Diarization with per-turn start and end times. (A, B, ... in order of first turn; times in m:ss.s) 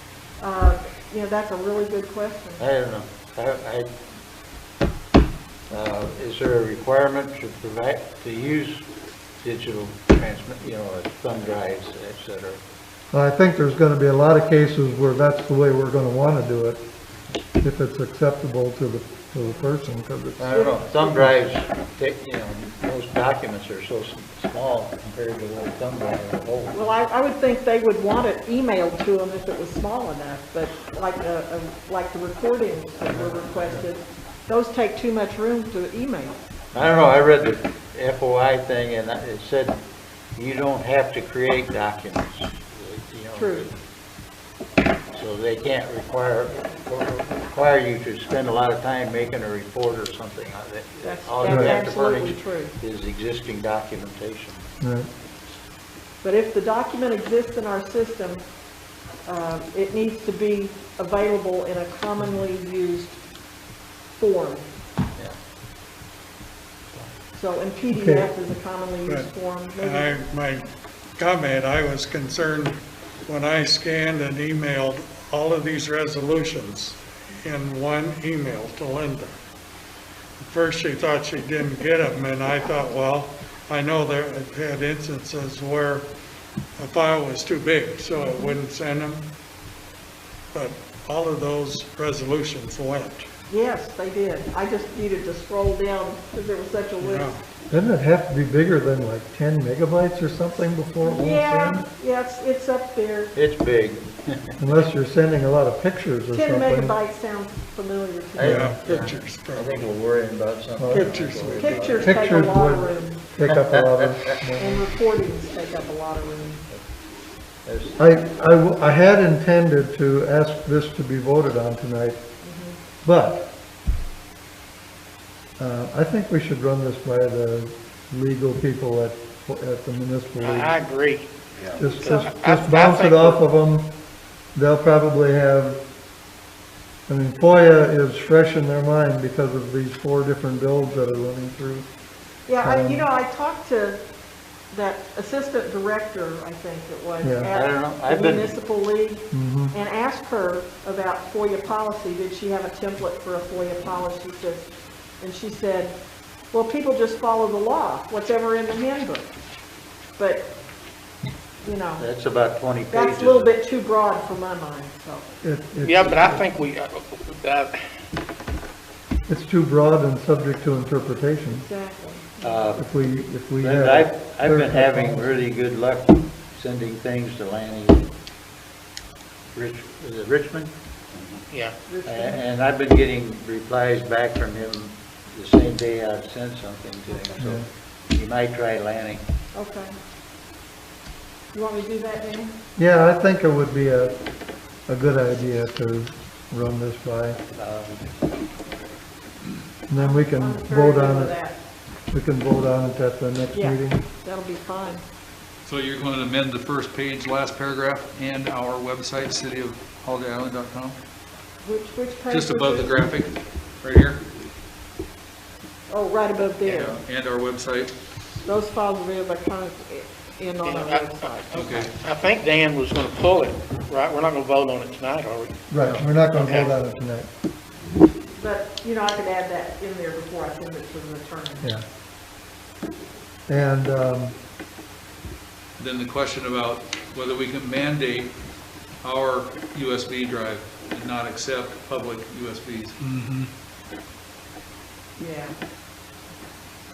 0:00.4-0:02.6 A
0:02.6-0:03.9 B
0:05.7-0:08.8 B
0:09.4-0:12.6 B
0:13.1-0:16.8 C
0:17.6-0:21.4 C
0:19.4-0:19.7 A
0:20.4-0:26.8 B
0:20.6-0:21.0 A
0:26.7-0:36.4 A
0:33.2-0:33.8 B
0:36.7-0:39.8 B
0:40.4-0:43.7 B
0:43.3-0:43.7 A
0:45.1-0:54.7 B
0:51.0-0:52.8 A
0:51.4-0:51.8 C
0:54.8-0:55.1 C
0:56.2-0:58.4 A
0:59.3-1:03.2 A
1:04.2-1:04.7 A
1:07.3-1:10.2 A
1:07.9-1:08.3 C
1:09.1-1:10.7 D
1:11.2-1:19.3 D
1:20.4-1:26.1 D
1:26.8-1:29.3 D
1:28.1-1:28.6 A
1:30.5-1:33.3 D
1:33.5-1:37.4 A
1:37.0-1:37.4 D
1:37.7-1:41.9 C
1:41.0-1:43.3 A
1:43.4-1:44.6 B
1:44.6-1:47.0 C
1:46.3-1:48.7 A
1:48.4-1:52.4 B
1:48.4-1:49.9 D
1:48.4-1:48.8 C
1:50.8-1:54.9 C
1:50.9-1:53.2 A
1:50.9-1:52.0 D
1:53.5-1:54.2 B
1:54.6-1:56.6 A
1:57.6-1:58.0 B
1:58.0-2:02.2 C
2:02.4-2:02.8 A
2:03.0-2:03.4 C
2:05.6-2:10.8 C
2:10.4-2:11.3 E
2:11.8-2:13.9 C
2:11.9-2:13.4 E
2:12.1-2:12.3 A
2:14.6-2:15.8 C
2:17.1-2:21.9 C
2:22.5-2:24.0 A
2:22.6-2:23.1 C
2:24.7-2:34.7 A
2:27.2-2:27.5 C
2:27.5-2:28.5 B
2:29.3-2:29.7 C
2:35.2-2:36.0 A
2:36.5-2:39.3 A
2:40.2-2:40.5 A
2:41.6-2:42.0 A
2:42.0-2:43.5 B
2:42.9-2:45.3 A
2:45.4-2:46.5 C
2:45.8-2:47.8 E
2:49.3-2:51.7 C
2:51.6-2:52.8 A
2:52.4-2:52.8 B
2:52.8-2:55.4 C
2:53.6-2:58.1 B
2:59.6-3:00.7 B
3:01.5-3:01.8 E
3:01.9-3:02.4 A
3:02.1-3:09.2 B
3:07.1-3:07.5 A
3:07.4-3:07.7 C
3:09.5-3:09.9 A
3:11.5-3:12.5 A
3:12.8-3:14.2 C
3:14.9-3:17.4 C
3:17.6-3:18.1 B
3:19.9-3:21.4 C
3:19.9-3:21.6 A
3:22.1-3:24.0 C
3:23.5-3:25.0 A
3:25.6-3:31.0 F
3:31.6-3:33.0 A
3:32.3-3:34.2 F
3:35.9-3:37.0 A
3:36.6-3:36.9 E
3:36.8-3:37.9 F
3:38.4-3:41.8 A
3:40.6-3:45.6 E
3:41.5-3:41.9 F
3:45.7-3:47.3 C
3:46.4-3:46.7 E
3:48.3-3:51.7 A
3:53.5-3:54.4 C
3:55.8-3:58.3 F
3:59.0-4:03.0 F
4:03.1-4:03.5 D
4:05.2-4:05.6 A